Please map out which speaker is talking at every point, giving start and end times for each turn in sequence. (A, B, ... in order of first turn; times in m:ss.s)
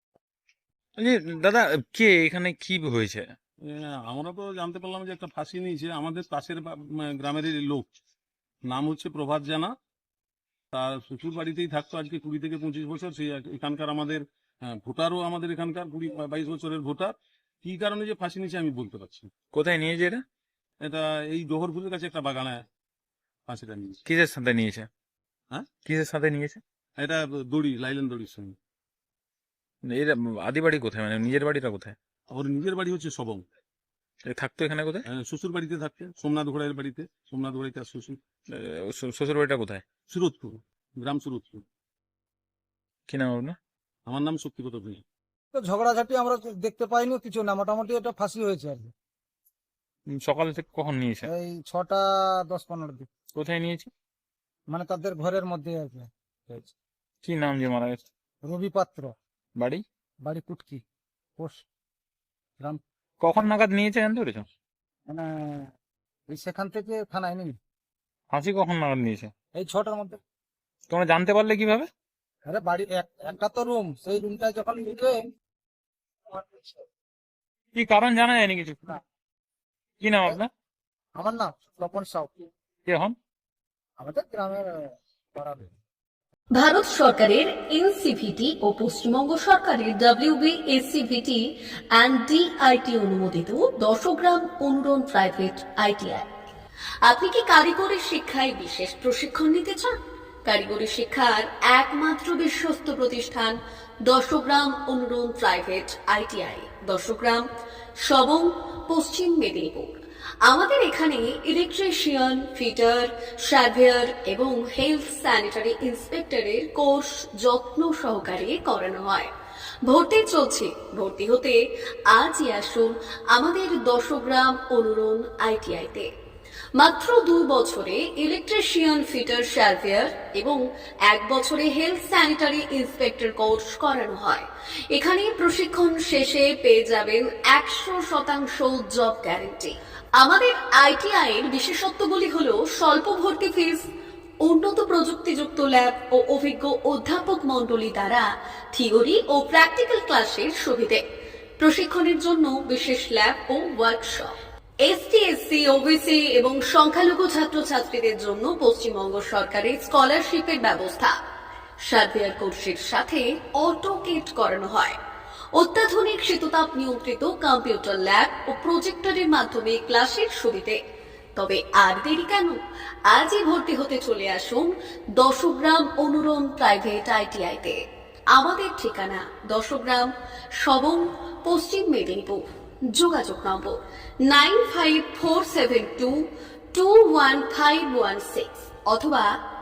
0:01.0-0:03.3 A
0:03.6-0:07.9 B
0:08.6-0:09.7 B
0:10.7-0:19.3 B
0:19.5-0:20.2 A
0:20.8-0:22.6 B
0:23.5-0:24.0 B
0:24.0-0:24.9 A
0:25.8-0:26.6 A
0:27.0-0:28.6 B
0:29.8-0:31.9 A
0:32.3-0:33.4 B
0:34.2-0:35.0 A
0:35.0-0:38.2 B
0:38.5-0:39.8 A
0:40.1-0:41.6 B
0:43.1-0:43.6 A
0:44.0-0:45.0 B
0:45.5-0:48.9 C
0:50.1-0:51.3 A
0:51.2-0:53.1 C
0:53.3-0:53.9 A
0:54.7-0:56.7 C
0:57.2-0:58.1 A
0:58.4-0:59.1 C
0:59.6-0:59.8 A
1:00.2-1:00.8 C
1:01.4-1:01.6 C
1:03.2-1:04.4 A
1:05.1-1:05.7 C
1:06.3-1:07.6 C
1:08.3-1:09.3 A
1:09.5-1:10.2 C
1:10.9-1:11.9 A
1:12.5-1:15.2 C
1:16.3-1:16.7 C
1:17.7-1:18.8 A
1:20.0-1:20.5 A
1:21.2-1:22.5 C
1:22.8-1:23.1 A
1:24.0-1:25.7 C
1:26.5-1:36.2 D
1:37.0-1:39.9 D
1:40.4-1:43.5 D
1:44.1-1:47.4 D
1:48.0-1:49.9 D
1:50.5-1:59.3 D
1:59.9-2:01.6 D
2:02.1-2:06.1 D
2:06.8-2:23.9 D
2:24.4-2:31.0 D
2:31.6-2:34.3 D
2:34.8-2:41.1 D
2:41.8-2:45.0 D
2:45.5-2:50.8 D
2:51.4-2:52.6 D
2:53.1-2:57.8 D
2:58.3-3:02.4 D
3:02.9-3:06.2 D
3:06.7-3:09.3 D